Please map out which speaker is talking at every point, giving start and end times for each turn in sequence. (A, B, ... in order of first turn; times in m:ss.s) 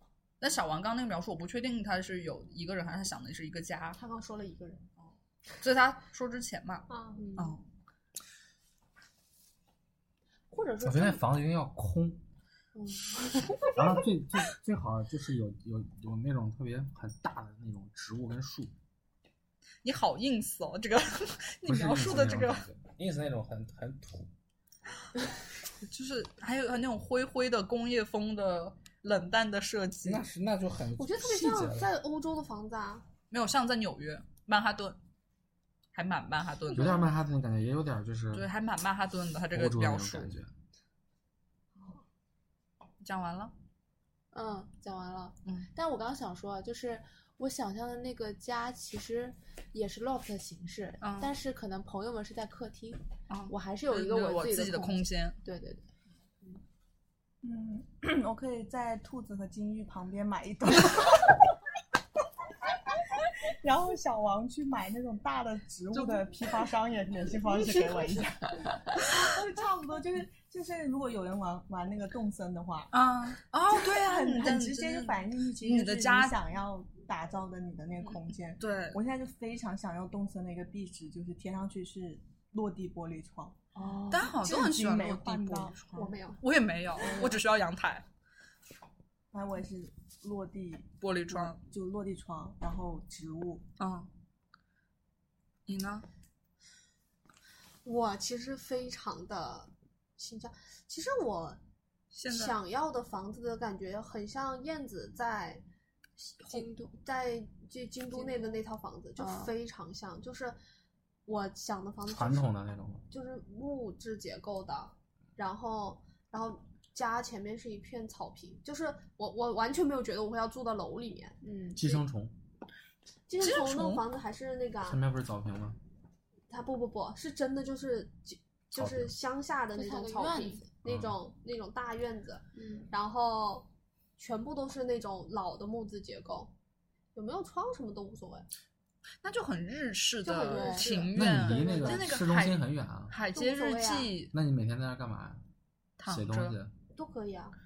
0:00.4-0:04.0 A
0:04.0-0:04.8 B
0:05.0-0:07.7 A
0:06.9-0:07.3 B
0:07.2-0:07.6 C
0:10.5-0:11.2 C
0:10.8-0:12.2 D
0:12.7-0:13.6 C
0:13.7-0:18.7 D
0:19.8-0:22.6 A
0:21.6-0:24.3 D
0:25.8-0:30.2 A
0:30.0-0:31.9 D
0:31.0-0:33.1 B
0:33.3-0:35.0 A
0:35.9-0:37.0 A
0:36.7-0:38.5 D
0:38.3-0:40.4 A
0:39.5-0:40.5 D
0:43.0-0:43.5 A
0:44.3-0:55.9 C
0:51.0-0:51.3 A
0:53.3-0:55.4 A
0:57.4-1:01.5 E
1:03.0-1:12.9 E
1:12.9-1:16.4 A
1:13.7-1:23.7 E
1:18.0-1:19.0 A
1:24.1-1:28.1 A
1:24.3-1:25.8 E
1:25.9-1:26.4 B
1:27.0-1:27.4 E
1:29.3-1:33.6 E
1:31.0-1:31.6 A
1:33.8-1:34.1 A
1:35.7-1:36.1 A
1:37.8-1:41.6 B
1:42.1-1:42.6 A
1:42.3-1:45.6 B
1:46.4-1:50.6 B
1:46.5-1:46.8 C
1:48.1-1:48.6 C
1:49.2-1:49.5 C
1:51.3-1:52.5 B
1:52.0-1:53.0 D
1:53.1-2:01.6 B
2:01.4-2:02.0 C
2:01.8-2:02.3 D
2:03.3-2:05.0 B
2:03.4-2:04.0 A
2:04.8-2:05.8 D
2:06.5-2:16.5 B
2:08.7-2:09.1 D
2:09.7-2:10.6 C
2:10.8-2:11.2 D
2:12.6-2:12.8 C
2:17.1-2:18.5 B
2:19.2-2:24.3 A
2:20.2-2:22.0 B
2:20.4-2:20.9 C
2:21.1-2:23.1 D
2:23.3-2:24.1 B
2:24.3-2:25.4 D
2:26.0-2:26.6 A
2:26.1-2:26.7 D
2:27.0-2:27.6 B